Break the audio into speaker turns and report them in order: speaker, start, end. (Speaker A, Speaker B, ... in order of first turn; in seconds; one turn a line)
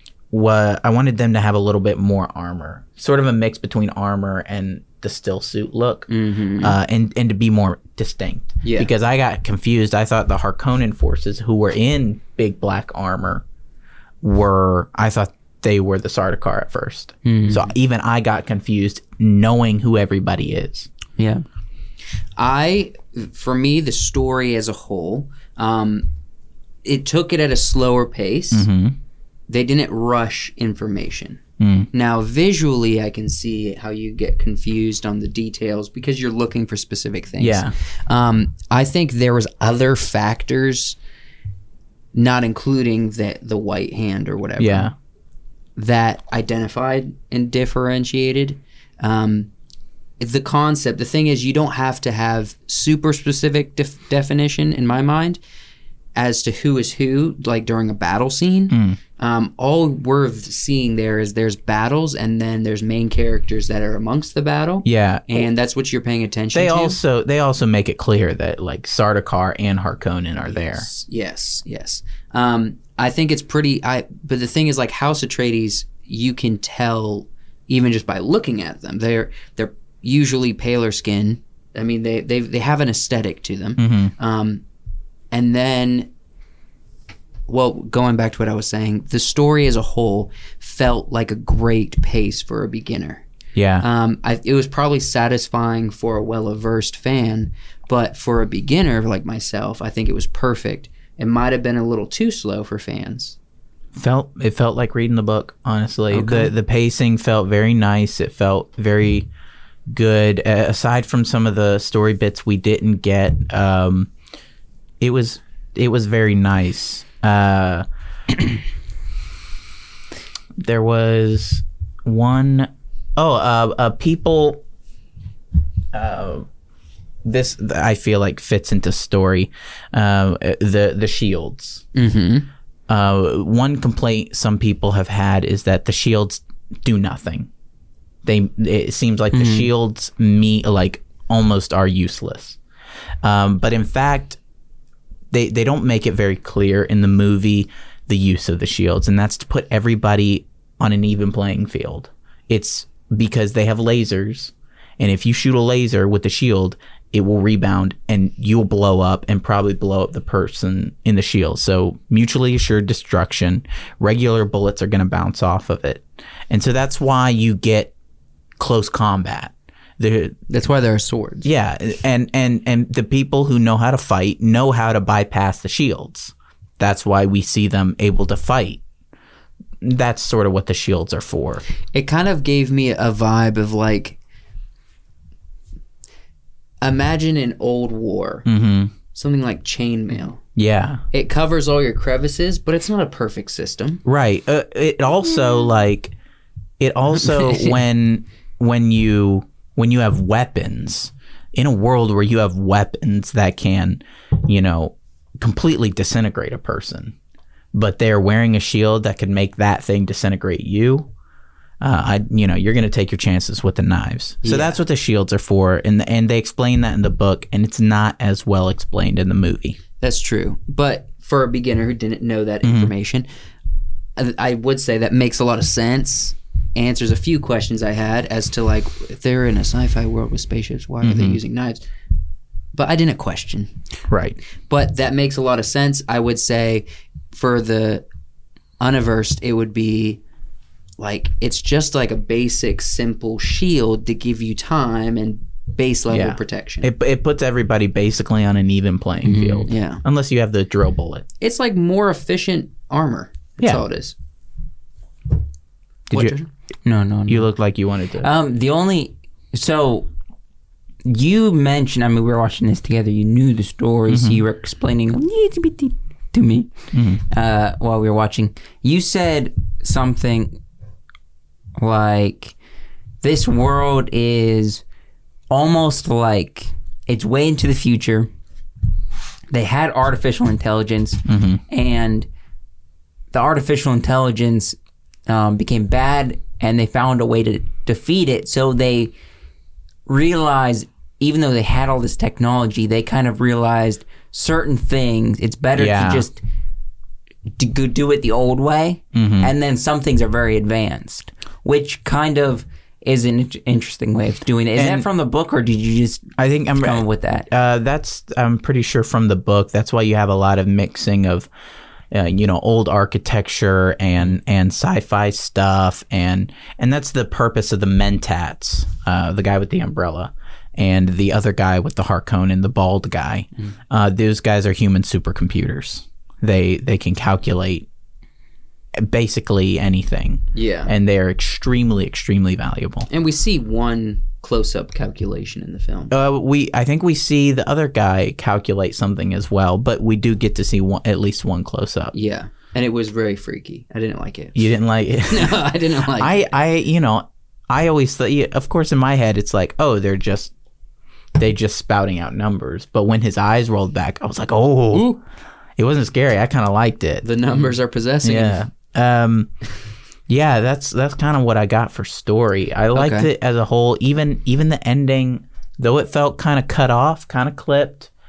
Speaker A: 0.3-6.1
Speaker B: 6.1-6.8
Speaker A: 6.6-13.4
Speaker B: 8.6-8.9
Speaker A: 14.2-20.9
Speaker C: 17.2-17.6
Speaker C: 21.2-21.4
Speaker B: 22.4-26.1
Speaker B: 26.8-28.6
Speaker A: 28.5-28.9
Speaker B: 29.5-41.0
Speaker A: 31.6-31.9
Speaker A: 37.4-37.7
Speaker B: 42.1-44.9
Speaker A: 44.6-44.9
Speaker B: 45.8-49.5
Speaker B: 50.2-55.4
Speaker B: 56.1-67.0
Speaker A: 58.7-59.0
Speaker A: 64.8-65.5
Speaker A: 66.5-70.9
Speaker B: 70.5-84.6
Speaker A: 83.8-84.1
Speaker B: 85.3-86.1
Speaker B: 87.5-93.2
Speaker A: 93.5-93.8
Speaker B: 93.8-103.3
Speaker A: 104.0-109.3
Speaker C: 106.1-106.5
Speaker A: 109.9-114.1
Speaker A: 115.0-117.8
Speaker A: 120.6-124.6
Speaker A: 125.9-126.5
Speaker A: 127.2-131.8
Speaker B: 131.9-132.5
Speaker A: 132.9-137.5
Speaker A: 138.2-142.6
Speaker C: 139.3-139.7
Speaker A: 143.2-144.4
Speaker A: 145.3-167.9
Speaker A: 168.6-170.4
Speaker B: 170.5-171.5
Speaker A: 171.4-178.8
Speaker A: 179.8-181.6
Speaker B: 181.9-184.2
Speaker B: 186.8-188.4
Speaker A: 188.4-188.9
Speaker B: 189.1-190.4
Speaker A: 190.6-191.0
Speaker B: 191.1-194.0
Speaker A: 194.0-196.1
Speaker A: 196.8-207.1
Speaker A: 207.7-211.1
Speaker A: 211.8-219.8
Speaker B: 214.4-214.8
Speaker B: 220.0-223.3
Speaker A: 222.6-222.9
Speaker B: 224.2-231.8
Speaker A: 231.0-231.4
Speaker B: 232.7-233.7
Speaker A: 234.1-234.4
Speaker B: 234.7-238.1
Speaker B: 238.8-240.2
Speaker B: 241.0-246.9
Speaker A: 246.1-251.2
Speaker C: 249.2-249.7
Speaker B: 249.7-250.0
Speaker B: 251.4-254.1
Speaker A: 256.1-256.4
Speaker B: 256.1-256.5
Speaker C: 256.8-257.5
Speaker A: 257.3-258.3
Speaker C: 258.2-260.1
Speaker C: 261.0-266.7
Speaker A: 264.1-264.4
Speaker A: 266.9-267.2
Speaker C: 267.3-270.6
Speaker C: 271.8-272.5
Speaker C: 273.2-274.8
Speaker C: 275.5-278.3
Speaker C: 279.5-282.3
Speaker A: 281.3-281.6
Speaker C: 283.3-289.1
Speaker C: 290.1-296.4
Speaker A: 295.8-296.3
Speaker C: 297.6-307.5
Speaker A: 299.1-299.5
Speaker A: 304.8-305.1
Speaker A: 306.4-311.5
Speaker A: 312.1-327.9
Speaker A: 329.0-333.1
Speaker B: 330.5-330.9
Speaker B: 333.1-336.1
Speaker A: 336.1-342.1
Speaker B: 342.1-344.7
Speaker A: 344.5-350.5
Speaker B: 345.3-346.5
Speaker A: 351.4-355.1
Speaker B: 354.9-355.2
Speaker A: 355.8-357.3
Speaker B: 357.2-358.6
Speaker A: 358.2-359.5
Speaker A: 360.3-368.1
Speaker B: 362.9-363.3